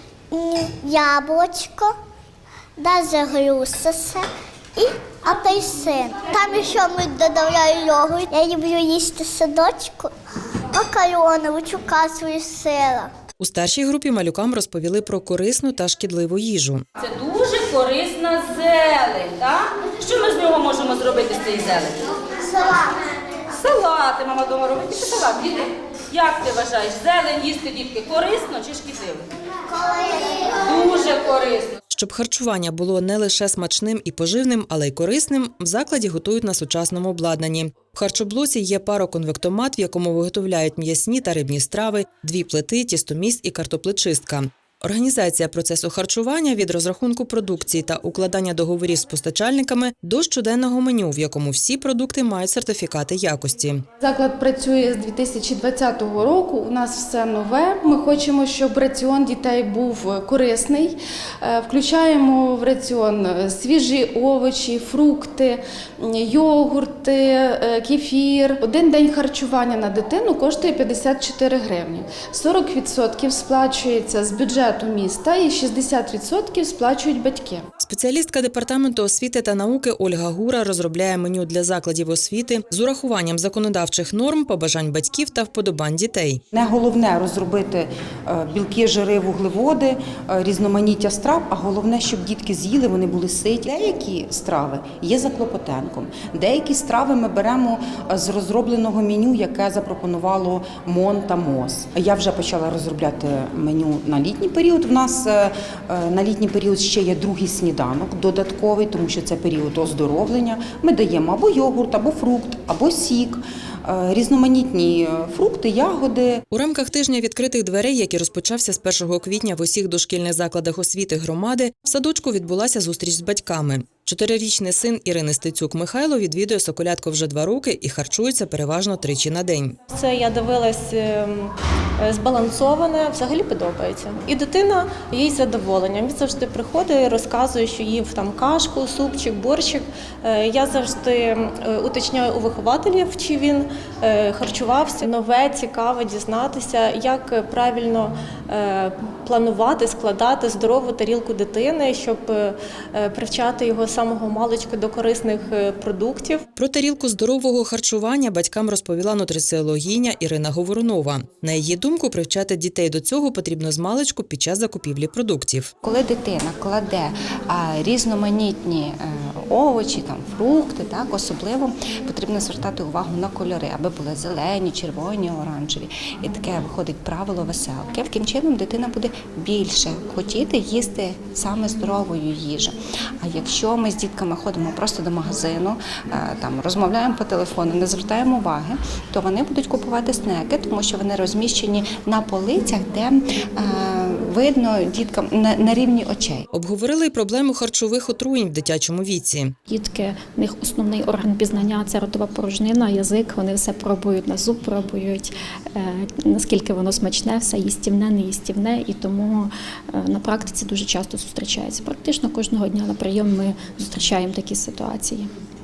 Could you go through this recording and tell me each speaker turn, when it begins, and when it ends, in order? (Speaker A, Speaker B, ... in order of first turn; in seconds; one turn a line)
Speaker A: 0.3-1.9
Speaker A: 2.8-4.2
Speaker A: 4.8-10.1
Speaker A: 10.7-13.1
Speaker B: 13.4-16.8
Speaker C: 17.0-21.9
Speaker A: 22.5-22.9
Speaker C: 23.6-25.6
Speaker C: 26.1-29.2
Speaker A: 29.7-30.5
Speaker C: 30.6-31.7
Speaker B: 31.9-53.8
Speaker D: 54.0-77.7
Speaker B: 77.8-86.4
Speaker E: 86.5-116.4
Speaker B: 116.5-129.8
Speaker F: 129.9-156.4
Speaker B: 156.6-165.7
Speaker G: 165.8-196.4
Speaker B: 196.5-199.6
Speaker H: 199.7-215.3